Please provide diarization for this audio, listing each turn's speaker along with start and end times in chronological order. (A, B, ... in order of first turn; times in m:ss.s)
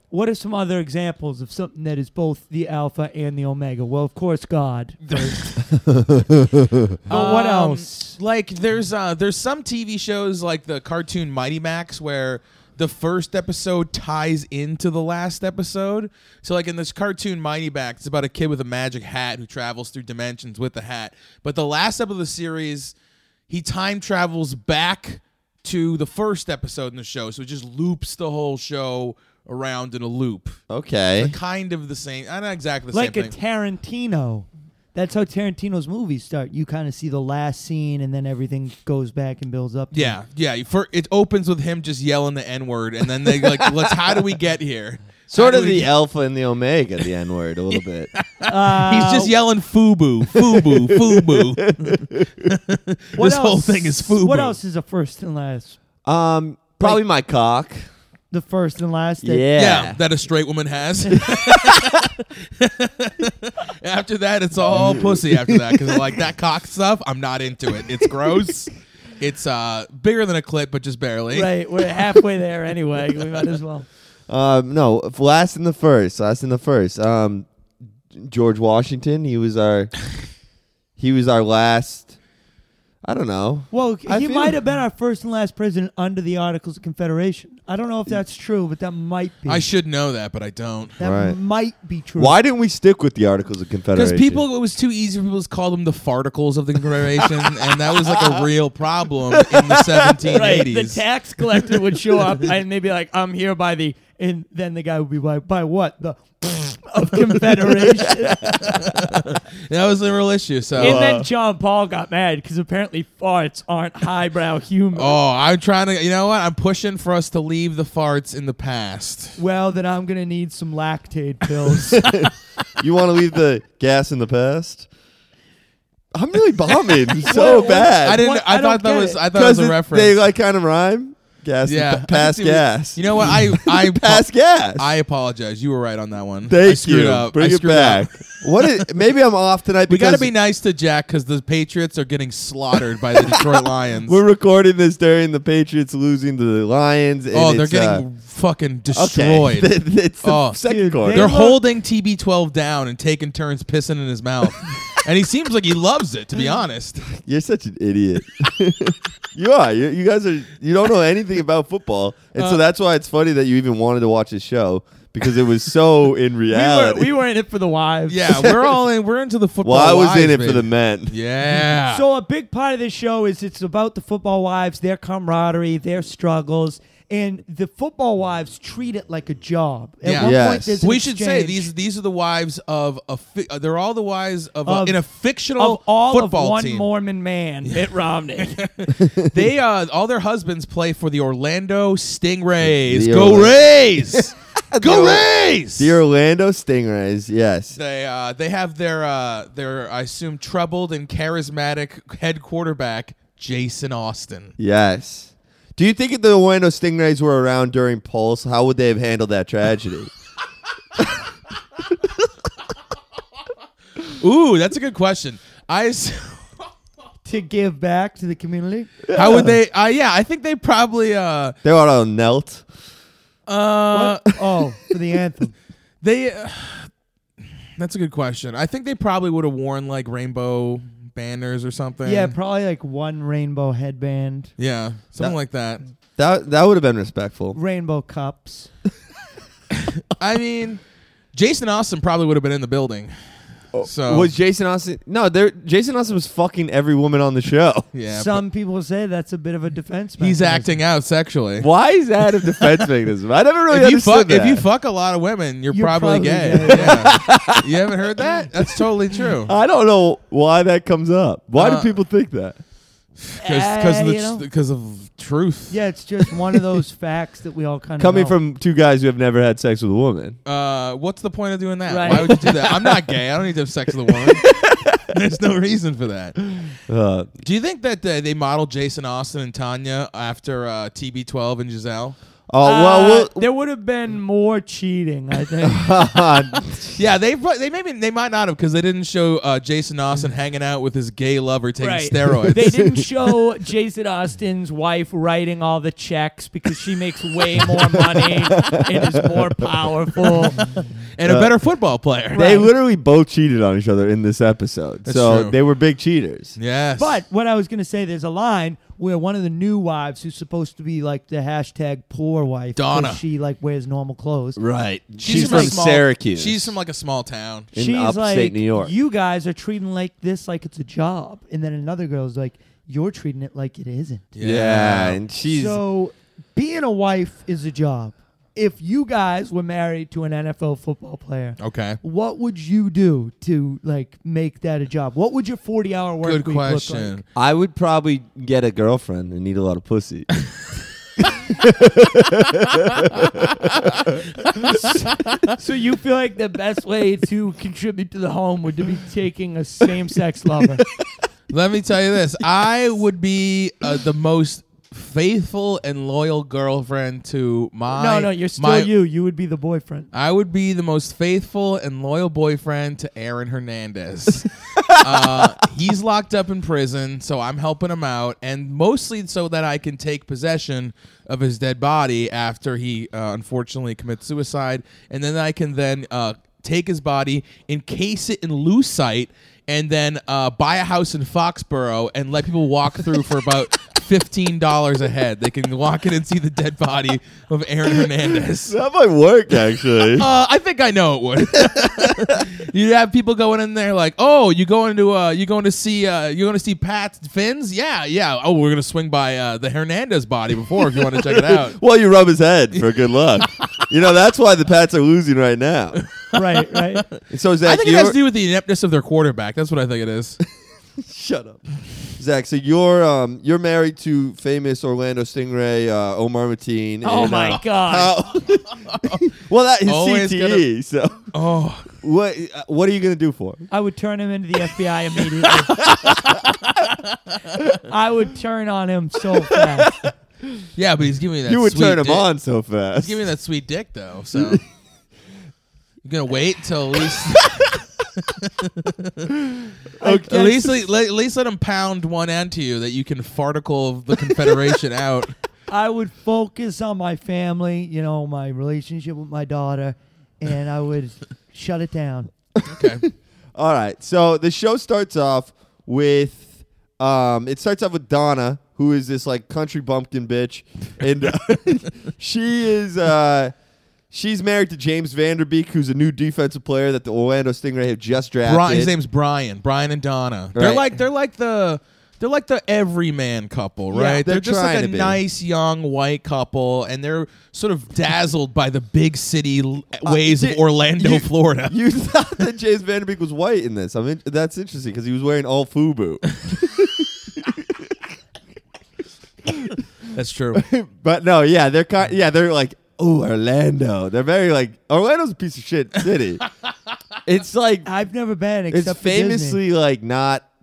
0:00.1-0:05.5 A
0:05.1-0:05.5 B
0:05.7-0:07.0 C
0:07.1-0:08.2 A
0:07.1-0:22.9 B
0:23.5-0:30.6 B
0:30.7-0:31.4 C
0:31.2-0:33.3 B
0:32.9-0:40.2 A
0:39.9-0:45.9 B
0:43.3-0:44.1 C
0:45.3-0:48.1 C
0:48.2-0:54.6 B
0:48.5-0:49.3 A
0:50.3-0:52.5 C
0:53.2-0:55.8 A
0:56.0-0:57.8 C
0:58.3-0:59.5 A
0:59.2-1:00.0 C
0:59.6-1:11.5 B
1:01.2-1:02.0 C
1:04.6-1:06.2 C
1:11.3-1:13.9 A
1:14.3-1:17.5 C
1:18.1-1:19.9 C
1:21.0-1:22.1 C
1:23.0-1:24.6 C
1:23.7-1:29.7 A
1:29.5-1:31.0 B
1:31.0-1:32.4 A
1:31.0-1:31.4 C
1:32.2-1:34.4 C
1:33.9-1:41.0 B
1:37.2-1:38.4 C
1:39.3-1:40.3 C
1:40.3-1:48.4 A
1:47.6-1:49.3 C
1:48.7-1:51.0 B
1:50.8-1:51.3 C
1:50.8-1:55.2 A
1:55.0-1:59.4 B
1:59.4-2:02.0 A
2:01.9-2:02.2 B
2:01.9-2:04.9 C
2:06.2-2:08.2 C
2:06.9-2:07.3 B
2:07.2-2:09.2 A
2:08.0-2:10.2 B
2:09.3-2:14.9 C
2:11.7-2:18.8 B
2:16.5-2:20.3 C
2:19.9-2:24.2 B
2:23.2-2:28.0 C
2:27.3-2:37.1 B
2:28.9-2:31.3 C
2:30.6-2:31.6 A
2:37.1-2:47.1 C
2:42.4-2:42.6 B
2:46.5-2:48.2 A
2:48.1-2:52.0 B
2:48.3-2:48.7 C
2:49.6-2:51.2 C
2:51.8-3:01.7 A
3:00.0-3:06.9 B
3:00.2-3:00.8 C
3:04.6-3:05.0 A
3:05.6-3:08.6 A
3:07.6-3:16.0 B
3:09.0-3:09.3 C
3:12.7-3:13.6 C
3:14.1-3:17.8 C
3:17.8-3:24.5 B
3:24.6-3:30.1 C
3:34.1-3:36.5 B
3:37.2-3:39.2 A
3:39.1-3:39.6 C
3:39.1-3:41.6 B
3:41.6-3:42.7 C
3:43.5-3:44.4 B
3:43.9-3:45.5 A
3:46.0-3:46.9 B
3:47.8-3:52.3 B
3:52.0-3:54.5 A
3:54.6-3:55.8 B
3:56.2-3:57.6 C
3:57.5-3:58.7 A
4:00.1-4:00.8 B
4:01.3-4:03.1 B
4:03.7-4:07.9 C
4:03.8-4:04.3 B
4:07.9-4:08.4 B
4:08.1-4:10.8 A
4:10.2-4:11.7 B
4:11.6-4:14.7 C
4:12.4-4:12.9 B
4:13.7-4:19.5 B
4:15.7-4:17.1 A
4:16.7-4:22.6 C
4:21.6-4:22.0 B
4:23.3-4:25.8 B
4:23.4-4:24.4 A
4:25.7-4:28.4 A
4:28.0-4:30.4 C
4:30.5-4:36.7 B
4:31.9-4:32.3 A
4:32.1-4:33.1 C
4:34.0-4:35.0 C
4:36.9-4:37.3 C
4:37.4-4:42.2 B
4:42.5-4:43.4 C
4:42.6-4:45.9 A
4:45.6-4:47.0 C
4:46.9-4:52.6 B
4:51.8-5:00.6 A
4:52.5-4:53.4 C
4:58.5-4:59.4 C
5:01.2-5:02.5 B
5:01.3-5:01.5 C
5:02.3-5:02.7 A
5:02.3-5:06.6 C
5:05.1-5:05.6 B
5:06.6-5:07.2 B
5:07.0-5:14.6 A
5:12.8-5:13.2 B
5:14.6-5:16.8 C
5:15.2-5:17.7 B
5:15.2-5:15.8 A
5:17.7-5:18.9 C
5:17.8-5:24.2 A
5:24.4-5:25.2 B
5:24.4-5:25.8 C
5:25.5-5:37.2 A
5:31.6-5:32.0 B
5:36.2-5:37.2 B
5:37.4-5:40.3 C
5:41.4-5:44.9 C
5:42.8-5:45.5 B
5:45.6-5:50.8 A
5:51.5-5:58.9 B
5:57.9-6:00.1 A
6:00.1-6:28.8 B
6:04.8-6:05.5 C
6:28.6-6:30.3 C
6:30.0-6:41.8 B
6:31.6-6:32.4 C
6:41.0-6:46.0 C
6:42.8-6:43.6 B
6:46.0-6:50.4 B
6:46.3-6:47.0 A
6:47.3-6:48.2 C
6:51.0-6:51.6 C
6:52.2-7:01.3 C
6:57.0-6:58.2 A
6:58.9-6:59.2 B
6:59.9-7:00.6 B
7:01.3-7:02.0 B
7:01.9-7:03.7 C
7:03.7-7:05.7 A
7:05.7-7:06.4 C
7:06.1-7:07.6 B
7:07.8-7:09.9 A
7:09.6-7:10.6 C
7:10.8-7:12.3 B
7:11.4-7:13.2 C
7:13.0-7:14.6 B
7:14.3-7:14.6 C
7:16.0-7:19.3 B
7:17.0-7:17.4 C
7:20.0-7:20.8 A
7:20.0-7:25.4 B
7:25.7-7:32.3 A
7:32.6-7:43.5 C
7:32.7-7:33.0 B
7:44.1-7:48.9 C
7:48.4-8:01.8 B
7:50.5-7:50.9 C
7:53.9-7:54.2 A
7:54.0-7:55.2 C
8:00.0-8:08.0 C
8:09.4-8:09.8 C
8:10.1-8:10.7 B
8:10.5-8:16.4 C
8:17.3-8:17.9 C
8:17.8-8:19.6 A
8:18.7-8:20.5 C